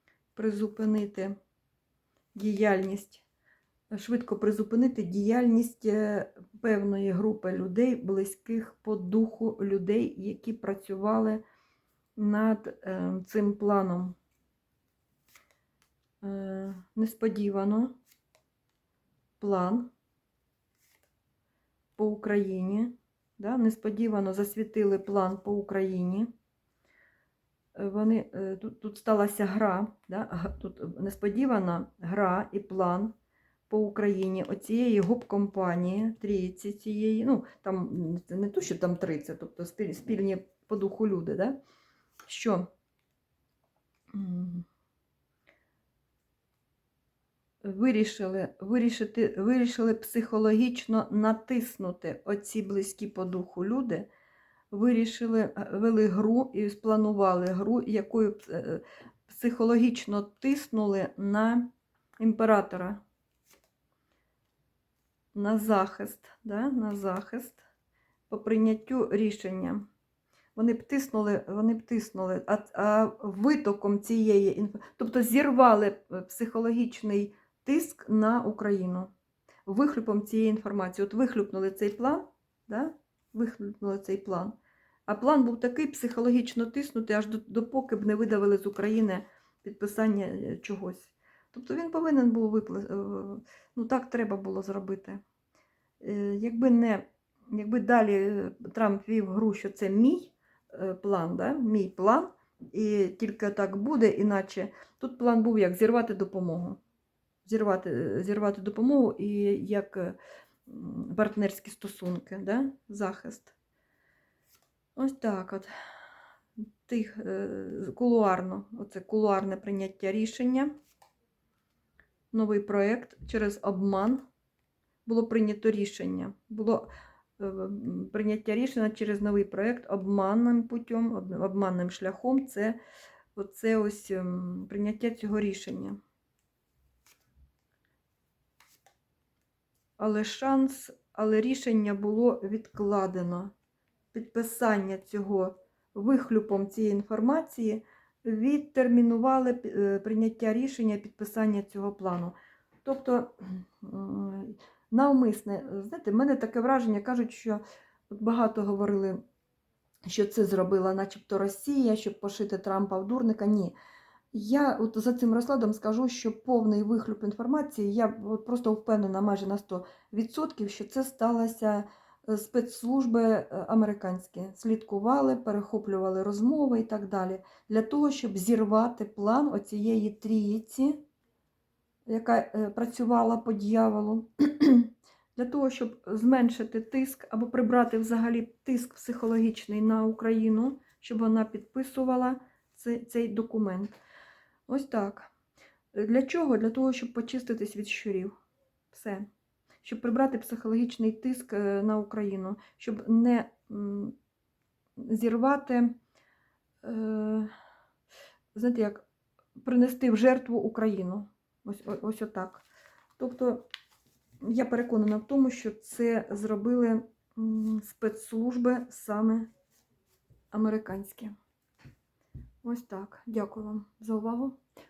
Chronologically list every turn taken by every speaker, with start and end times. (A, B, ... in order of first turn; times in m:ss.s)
0:00.4-0:01.4 A
0:02.4-0:03.2 A
0:03.9-0:11.4 A
0:12.2-0:14.2 A
0:16.2-0:18.0 A
0:19.4-0:19.9 A
0:22.0-0:26.3 A
0:27.8-0:33.1 A
0:33.7-0:41.6 A
0:42.2-0:42.7 A
0:44.1-0:44.7 A
0:47.6-0:54.1 A
0:54.7-1:03.0 A
1:05.3-1:07.6 A
1:08.3-1:09.9 A
1:10.6-1:19.1 A
1:19.7-1:24.6 A
1:25.1-1:35.2 A
1:36.0-1:46.8 A
1:47.4-1:53.5 A
1:55.0-1:55.7 A
1:56.9-2:00.7 A
2:02.3-2:04.2 A
2:05.0-2:12.8 A
2:13.4-2:16.0 A
2:20.0-2:23.5 A
2:24.1-2:39.2 A
2:40.1-2:43.7 A
2:44.3-3:01.0 A
3:02.1-3:14.0 A
3:14.7-3:15.3 A
3:15.9-3:18.4 A
3:18.9-3:19.3 A
3:19.8-3:24.2 A
3:25.0-3:26.0 A
3:26.8-3:27.5 A
3:28.6-3:29.0 A
3:29.6-3:32.6 A
3:33.2-3:33.7 A
3:34.4-3:39.5 A
3:40.5-3:41.3 A
3:42.6-3:44.6 A